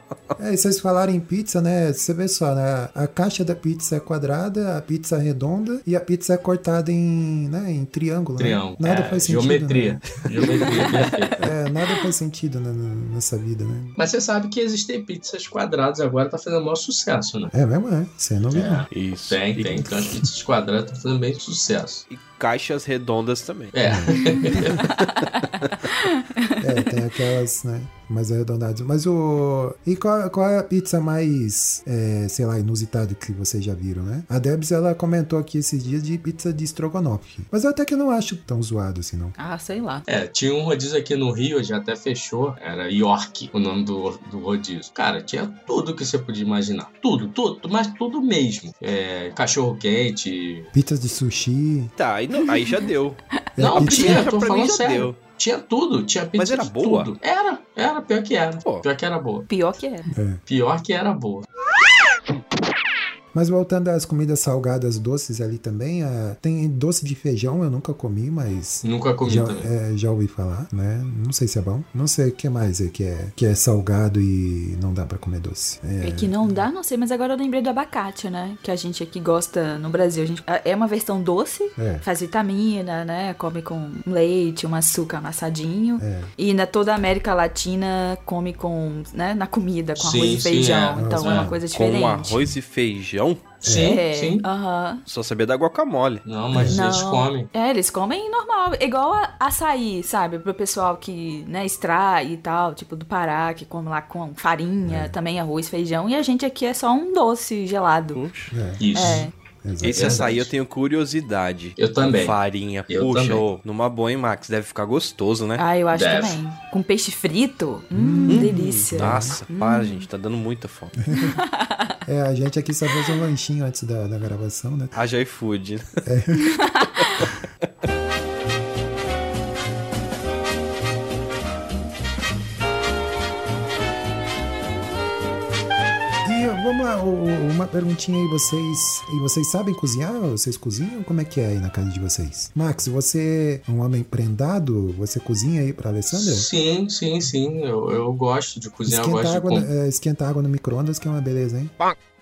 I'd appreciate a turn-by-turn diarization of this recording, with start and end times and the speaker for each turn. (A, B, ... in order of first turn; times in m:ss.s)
0:00.4-0:10.1 A
0:08.4-0:11.5 B
0:10.5-0:11.0 C
0:11.4-0:14.0 A
0:14.0-0:17.5 B
0:17.5-0:18.9 A
0:18.5-0:22.0 B
0:18.9-0:20.2 C
0:22.1-0:23.7 C
0:23.7-0:24.8 B
0:23.8-0:24.8 A
0:24.7-0:25.1 C
0:25.3-0:26.6 D
0:26.6-0:39.3 A
0:39.4-0:40.0 D
0:40.1-0:50.7 B
0:50.7-0:51.9 A
0:52.0-0:55.1 C
0:52.4-0:52.7 D
0:53.6-0:54.3 A
0:53.6-0:59.5 B
0:56.4-0:57.1 C
0:59.5-1:00.1 D
1:00.1-1:00.4 A
1:00.5-1:01.4 B
1:03.3-1:16.6 A
1:08.8-1:09.7 B
1:16.0-1:32.4 D
1:21.8-1:22.0 A
1:26.0-1:26.3 A
1:30.0-1:31.5 B
1:30.9-1:31.6 A
1:31.7-1:33.5 C
1:33.6-1:34.0 A
1:33.6-1:34.4 B
1:33.7-1:35.0 D
1:35.0-1:36.2 C
1:36.2-1:37.5 B
1:36.5-1:36.9 A
1:36.7-1:48.2 D
1:44.8-1:45.1 A
1:48.1-1:48.5 C
1:48.5-1:50.3 A
1:48.8-1:49.3 B
1:48.9-1:49.3 D
1:49.8-1:55.6 C
1:49.8-1:50.5 B
1:51.8-1:52.4 B
1:52.9-1:53.4 B
1:55.6-2:00.1 D
1:55.9-1:56.4 B
1:57.9-1:59.4 A
1:58.3-2:01.0 C
2:01.1-2:01.4 A
2:01.1-2:01.9 D
2:02.0-2:05.0 A
2:04.9-2:05.8 C
2:06.0-2:06.5 A
2:06.4-2:07.1 D
2:07.0-2:07.3 C
2:16.2-2:26.5 A
2:26.1-2:29.7 B
2:28.8-2:31.7 A